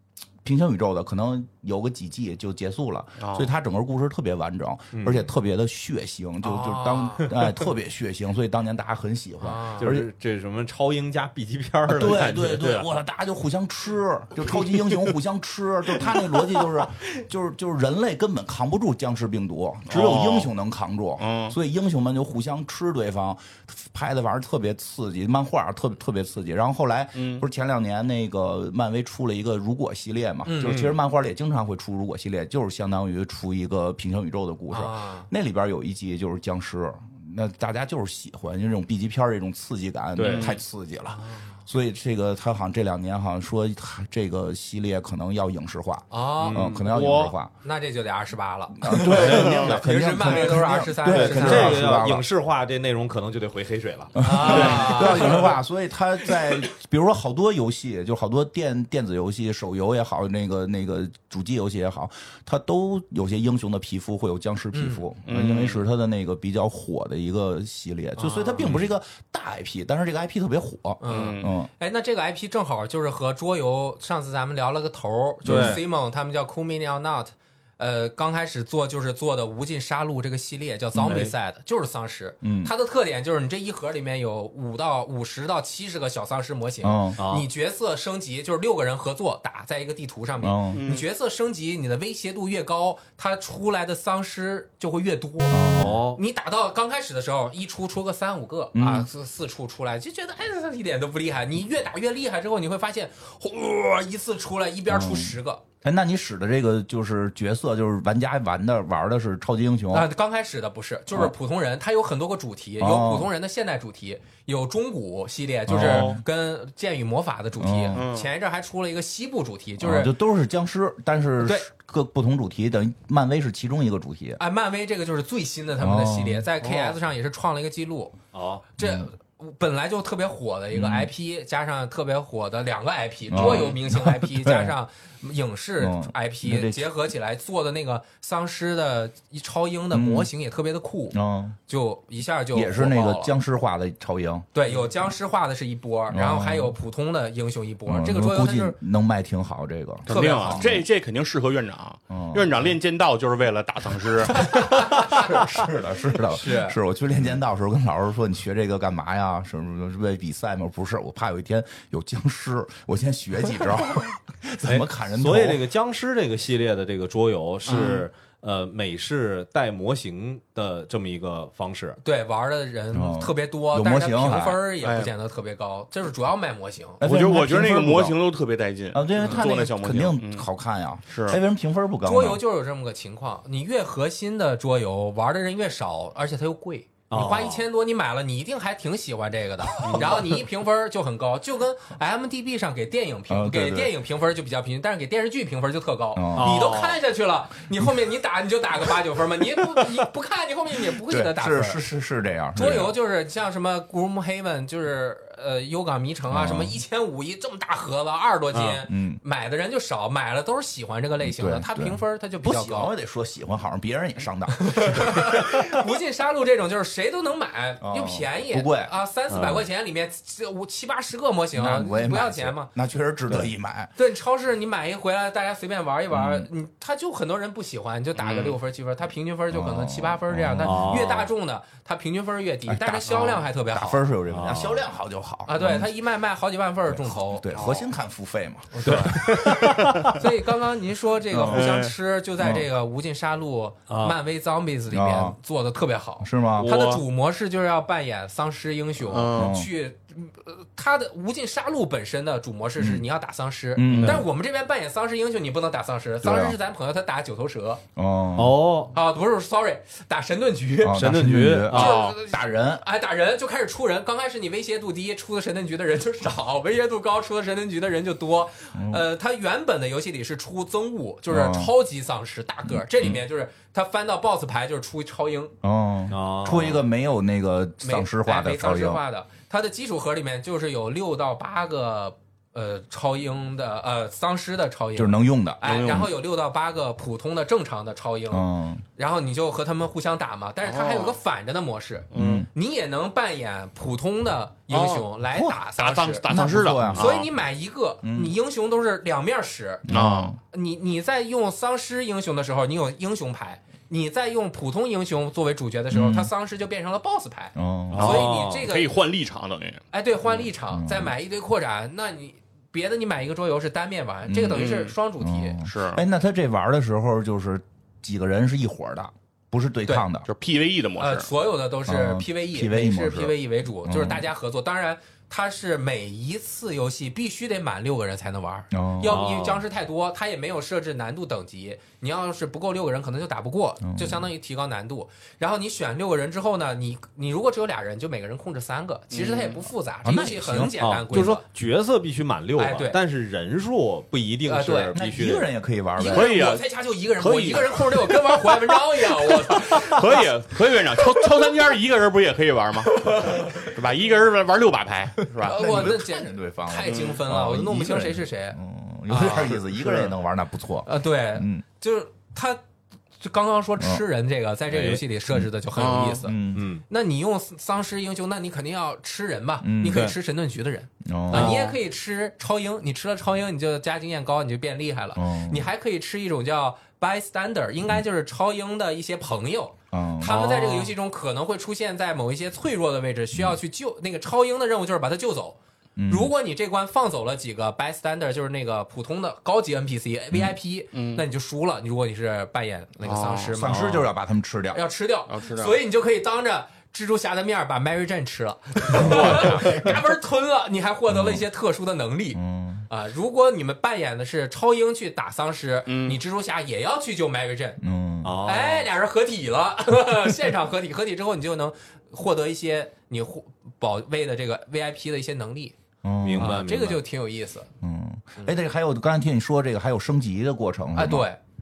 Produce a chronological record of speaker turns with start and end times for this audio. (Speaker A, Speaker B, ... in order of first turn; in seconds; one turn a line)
Speaker A: 0.4-10.1
Speaker B: 3.2-3.5
Speaker C: 4.9-5.3
Speaker D: 6.4-7.3
Speaker D: 9.4-9.9
Speaker C: 9.8-12.8
Speaker A: 11.9-47.5
Speaker C: 14.5-15.1
Speaker C: 16.0-16.7
Speaker B: 19.9-20.5
Speaker B: 21.2-21.6
Speaker B: 27.2-27.4
Speaker D: 30.4-30.8
Speaker C: 30.6-31.0
Speaker D: 34.7-35.3
Speaker C: 40.2-40.5
Speaker B: 40.2-40.6
Speaker D: 41.1-41.6
Speaker D: 46.1-46.8
Speaker C: 46.4-46.8
Speaker B: 46.9-47.3
Speaker D: 47.6-52.0
Speaker A: 48.8-52.3
Speaker C: 49.1-49.7
Speaker B: 49.2-49.8
Speaker C: 51.1-55.5
Speaker A: 54.2-71.7
Speaker D: 54.2-55.5
Speaker D: 64.7-65.0
Speaker B: 65.3-65.8
Speaker D: 68.2-68.8
Speaker C: 68.6-68.9
Speaker D: 71.0-95.6
Speaker B: 71.1-71.5
Speaker A: 75.4-75.8
Speaker C: 75.5-75.8
Speaker C: 81.0-81.3
Speaker A: 82.4-82.7
Speaker A: 86.8-87.2
Speaker C: 87.2-87.5
Speaker A: 90.4-90.8
Speaker B: 90.7-91.0
Speaker A: 95.5-96.0
Speaker C: 95.8-96.2
Speaker D: 96.1-105.6
Speaker A: 98.7-99.1
Speaker A: 104.9-110.1
Speaker D: 109.9-120.1
Speaker A: 112.8-113.3
Speaker A: 115.7-116.2
Speaker B: 115.7-116.2
Speaker A: 117.6-118.0
Speaker B: 117.9-118.3
Speaker A: 119.8-124.4
Speaker D: 121.4-121.7
Speaker D: 124.4-128.2
Speaker A: 125.8-126.5
Speaker C: 126.6-127.0
Speaker C: 128.3-128.7
Speaker D: 128.8-143.3
Speaker A: 128.8-129.1
Speaker A: 130.7-131.1
Speaker A: 133.3-134.8
Speaker A: 135.8-136.8
Speaker A: 139.9-140.3
Speaker A: 141.1-141.6
Speaker A: 142.5-144.5
Speaker D: 144.5-148.8
Speaker A: 146.1-146.8
Speaker A: 147.9-150.9
Speaker B: 150.1-154.5
Speaker D: 150.1-150.7
Speaker A: 152.1-152.7
Speaker D: 154.4-155.4
Speaker A: 154.5-165.7
Speaker D: 156.3-156.8
Speaker C: 164.7-172.0
Speaker D: 167.7-168.0
Speaker D: 172.0-177.0
Speaker A: 172.9-174.6
Speaker B: 174.8-175.1
Speaker A: 177.0-178.2
Speaker B: 177.0-180.5
Speaker A: 178.9-182.4
Speaker B: 181.1-181.4
Speaker D: 182.0-201.8
Speaker C: 187.1-187.7
Speaker B: 189.8-190.1
Speaker A: 193.3-193.9
Speaker A: 196.2-196.7
Speaker C: 196.4-197.0
Speaker A: 201.0-202.9
Speaker D: 202.5-212.9
Speaker A: 206.3-206.8
Speaker C: 208.5-208.8
Speaker A: 208.9-209.2
Speaker A: 211.2-215.4
Speaker D: 214.6-222.7
Speaker A: 217.8-218.9
Speaker C: 219.3-219.7
Speaker A: 221.6-223.9
Speaker D: 224.0-234.0
Speaker A: 226.1-226.5
Speaker B: 228.2-228.6
Speaker A: 229.5-231.2
Speaker C: 230.6-231.3
Speaker A: 232.7-235.9
Speaker C: 234.3-234.8
Speaker D: 235.5-237.5
Speaker A: 236.9-239.6
Speaker C: 237.6-237.9
Speaker D: 238.7-257.8
Speaker C: 238.8-240.2
Speaker A: 241.3-241.7
Speaker B: 241.5-241.9
Speaker A: 242.4-242.7
Speaker C: 243.9-244.2
Speaker A: 244.9-245.4
Speaker A: 246.2-246.7
Speaker B: 246.6-247.0
Speaker B: 249.1-249.6
Speaker A: 249.3-249.7
Speaker A: 252.8-253.1
Speaker A: 253.8-254.3
Speaker B: 253.9-254.2
Speaker A: 256.2-256.6
Speaker A: 258.0-258.6
Speaker C: 258.4-258.9
Speaker D: 258.9-275.5
Speaker A: 260.8-262.9
Speaker C: 260.9-262.0
Speaker B: 261.7-262.2
Speaker A: 268.8-269.0
Speaker A: 271.3-271.7
Speaker A: 272.7-273.2
Speaker A: 275.6-279.0
Speaker C: 276.1-276.8
Speaker D: 277.8-288.4
Speaker A: 285.0-286.1
Speaker B: 285.6-286.1
Speaker A: 288.3-288.9
Speaker D: 289.0-296.2
Speaker B: 290.6-291.2
Speaker B: 292.1-292.5
Speaker A: 292.1-292.5
Speaker B: 294.7-295.1
Speaker A: 295.3-295.6
Speaker B: 295.8-297.3
Speaker A: 296.3-297.2
Speaker D: 296.9-299.9
Speaker A: 298.0-298.4
Speaker A: 299.9-300.4
Speaker B: 299.9-300.4
Speaker D: 300.5-308.9
Speaker A: 305.9-306.3
Speaker A: 307.6-308.2
Speaker B: 307.9-309.8
Speaker C: 307.9-308.5
Speaker D: 309.9-315.6
Speaker A: 310.7-311.1
Speaker A: 314.3-320.3
Speaker B: 314.5-314.9
Speaker B: 315.6-316.0
Speaker B: 320.3-321.3
Speaker D: 321.0-341.4
Speaker A: 321.9-324.3
Speaker A: 328.7-329.2
Speaker C: 329.0-329.6
Speaker A: 333.8-334.3
Speaker B: 339.1-339.4
Speaker A: 340.0-341.3
Speaker C: 340.8-345.5
Speaker D: 342.6-343.0
Speaker D: 344.4-345.0
Speaker A: 344.9-346.3
Speaker D: 346.0-350.2
Speaker B: 346.1-346.6
Speaker B: 347.2-348.4
Speaker B: 349.5-355.6
Speaker D: 352.9-353.7
Speaker A: 355.4-361.6
Speaker D: 355.4-359.6
Speaker B: 356.9-357.2
Speaker C: 359.4-360.1
Speaker D: 360.9-362.6
Speaker D: 363.2-366.4
Speaker A: 363.8-364.0
Speaker C: 364.7-365.0
Speaker B: 365.8-366.2
Speaker A: 366.2-366.7
Speaker C: 366.6-366.8
Speaker D: 366.9-393.8
Speaker A: 369.6-370.1
Speaker C: 369.9-370.1
Speaker A: 371.0-371.6
Speaker C: 371.3-371.7
Speaker A: 375.2-375.7
Speaker A: 379.9-380.8
Speaker A: 386.0-386.3
Speaker B: 390.9-391.2
Speaker B: 393.0-393.8
Speaker A: 393.5-394.8
Speaker C: 393.7-394.1
Speaker D: 394.7-407.8
Speaker B: 395.3-395.8
Speaker B: 398.9-399.6
Speaker A: 398.9-399.8
Speaker A: 401.1-401.4
Speaker A: 402.4-402.9
Speaker B: 405.9-406.2
Speaker A: 407.8-408.4
Speaker C: 408.2-408.9
Speaker D: 408.4-415.8
Speaker A: 416.0-416.7
Speaker C: 416.2-417.0
Speaker D: 416.4-417.7
Speaker A: 417.8-421.3
Speaker D: 420.9-421.4